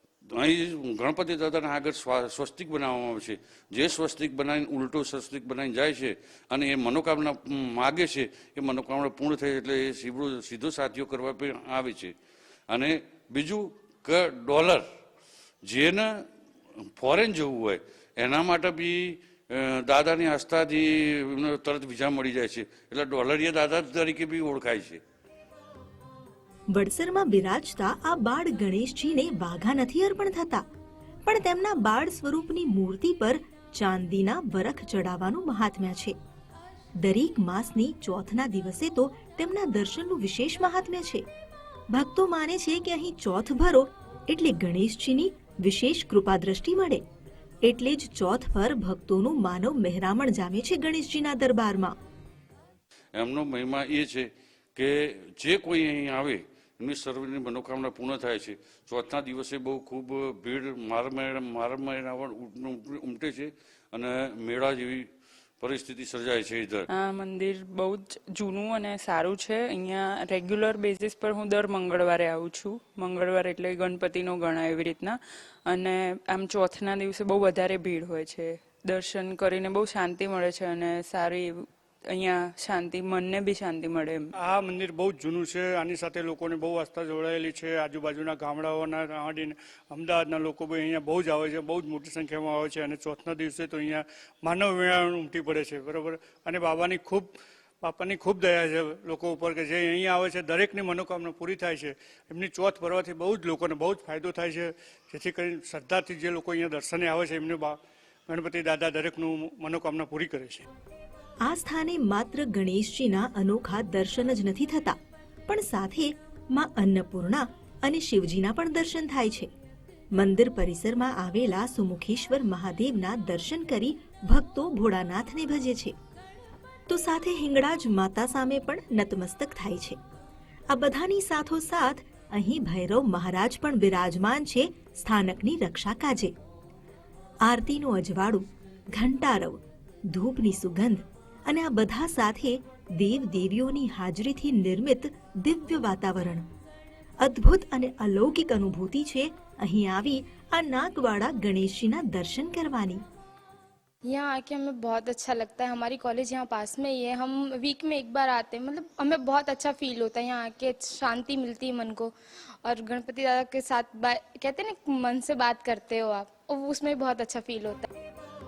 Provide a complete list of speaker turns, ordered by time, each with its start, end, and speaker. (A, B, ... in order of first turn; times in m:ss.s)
0:00.3-0:12.1 A
0:12.7-0:14.8 A
0:15.6-0:16.1 A
0:17.0-0:25.0 A
0:26.7-0:30.6 B
0:31.2-0:36.1 B
0:37.0-0:41.2 B
0:41.9-0:47.0 B
0:47.6-0:51.9 B
0:53.2-1:05.1 A
1:05.6-1:06.9 A
1:06.9-1:24.2 C
1:24.4-1:50.6 D
1:51.4-1:55.0 B
1:55.5-1:59.5 B
2:00.2-2:05.9 B
2:06.9-2:10.0 B
2:10.7-2:16.3 B
2:17.4-2:26.4 B
2:27.2-2:33.0 B
2:34.0-2:47.9 E